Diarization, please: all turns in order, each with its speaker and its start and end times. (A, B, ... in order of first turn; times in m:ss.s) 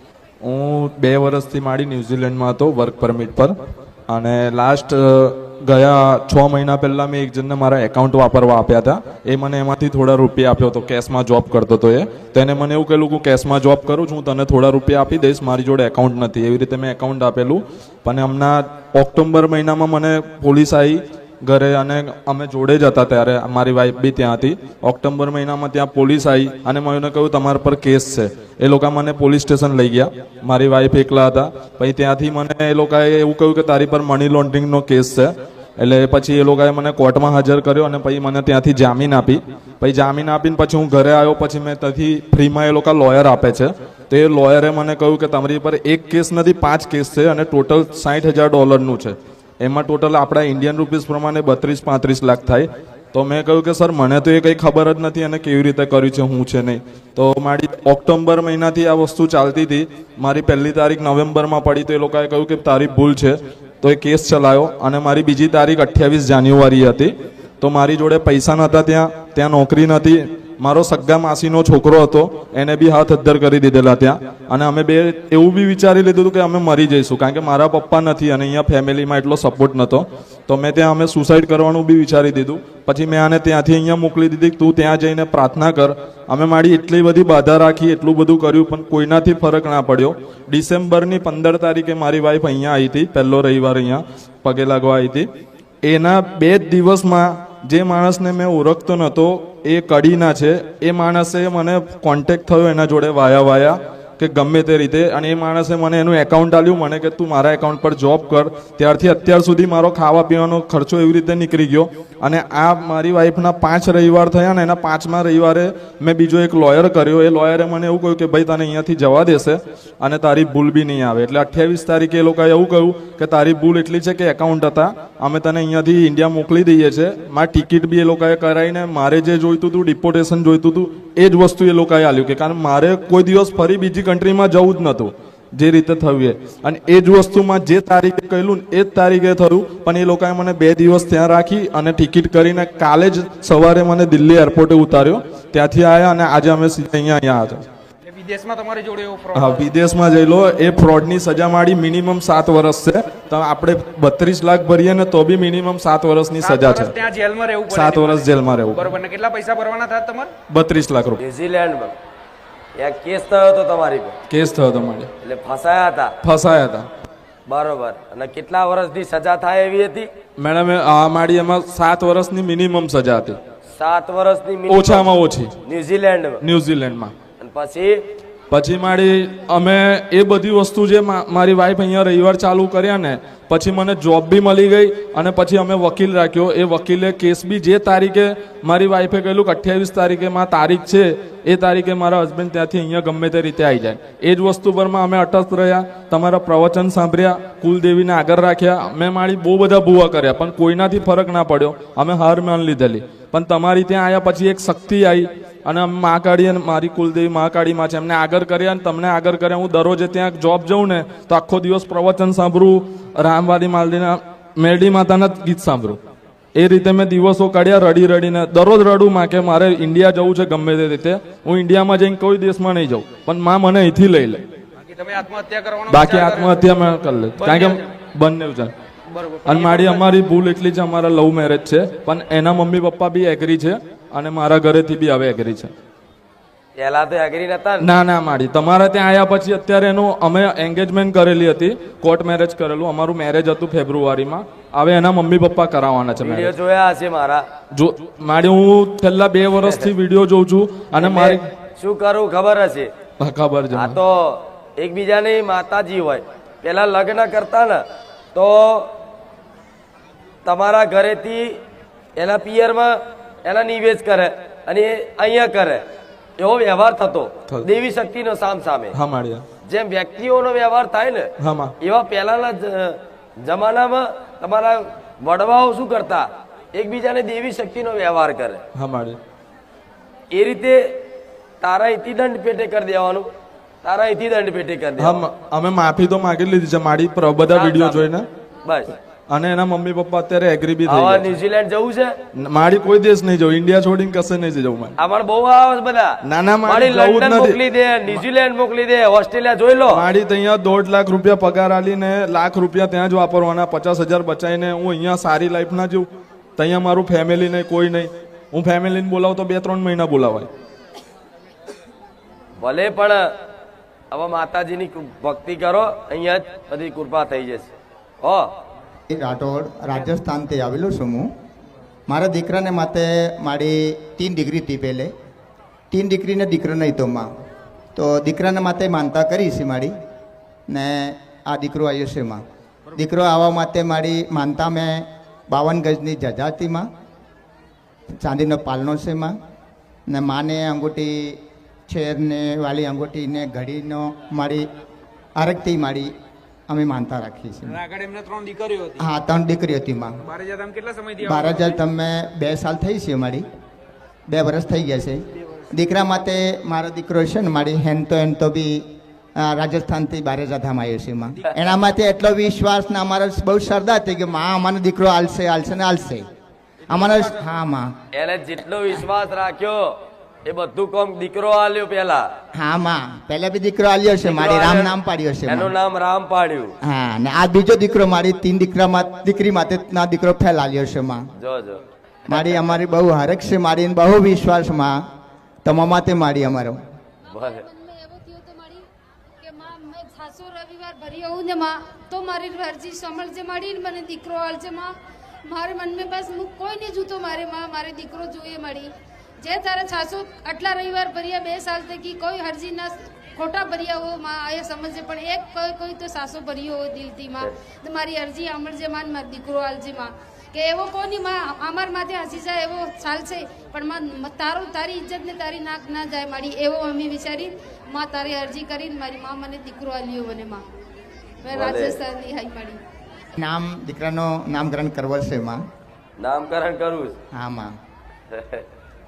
0:00.4-0:03.5 A
0:04.1-1:35.3 A
1:35.8-2:27.6 A
2:28.2-2:29.2 B
2:29.3-2:37.0 A
2:36.4-2:37.6 B
2:37.7-2:38.9 A
2:39.1-2:40.0 B
2:40.5-2:41.2 A
2:41.2-2:41.9 C
2:42.8-2:44.1 C
2:44.3-2:45.1 A
2:45.2-2:46.1 C
2:46.2-2:46.9 A
2:47.5-2:50.1 C
2:50.4-2:53.4 A
2:53.7-2:55.1 C
2:54.7-2:55.5 A
2:55.6-2:56.4 C
2:56.4-2:57.1 A
2:57.4-2:58.0 C
2:58.5-3:36.0 A
3:36.5-3:44.4 A
3:45.0-3:46.2 B
3:45.9-3:48.7 A
3:49.4-3:55.7 A
3:56.8-3:57.9 C
3:57.8-4:06.5 A
4:06.2-4:07.4 C
4:07.7-4:11.4 A
4:09.6-4:09.9 C
4:11.0-4:12.9 C
4:13.2-4:14.0 A
4:13.7-4:17.8 C
4:18.3-4:18.9 C
4:20.4-4:21.6 C
4:22.2-4:22.9 C
4:23.4-4:25.8 C
4:26.4-4:28.9 C
4:28.9-4:29.4 A
4:29.7-4:31.3 C
4:31.4-4:31.7 A
4:31.8-4:38.6 C
4:38.8-4:39.2 A
4:40.3-4:40.8 C
4:41.6-4:43.3 C
4:43.8-4:45.2 C
4:45.0-4:48.2 A
4:47.5-4:48.1 C
4:48.6-4:48.9 C
4:49.3-4:51.3 A
4:50.9-4:52.1 C
4:52.4-4:54.9 A
4:55.0-4:56.1 C
4:56.2-4:58.2 A
4:56.6-5:00.0 C
4:59.9-5:10.5 A
5:12.6-5:13.2 C
5:14.1-5:17.7 C
5:19.1-5:21.3 D
5:22.1-5:25.1 D
5:25.9-5:27.2 D
5:27.9-5:29.9 D
5:30.7-5:32.4 D
5:32.9-5:36.8 D
5:38.2-5:39.3 D
5:40.1-5:44.7 D
5:45.4-5:46.1 D
5:46.7-5:47.8 D
5:47.7-5:48.8 B
5:49.0-5:50.2 D
5:50.3-5:51.4 B
5:51.2-5:53.4 D
5:54.3-5:55.2 D
5:55.7-5:58.8 D
5:59.4-6:06.2 D
6:06.9-6:07.9 D
6:08.1-6:09.8 C
6:10.4-6:12.2 C
6:12.5-6:15.7 D
6:14.2-6:16.7 C
6:16.8-6:21.2 D
6:21.4-6:22.6 C
6:22.3-6:24.9 D
6:25.6-6:26.8 D
6:27.3-6:28.9 E
6:27.3-6:27.6 C
6:29.4-6:34.9 E
6:35.5-7:00.6 E
7:01.4-7:02.8 E
7:01.5-7:02.0 C
7:03.4-7:05.6 D
7:06.2-7:07.1 C
7:07.3-7:07.7 D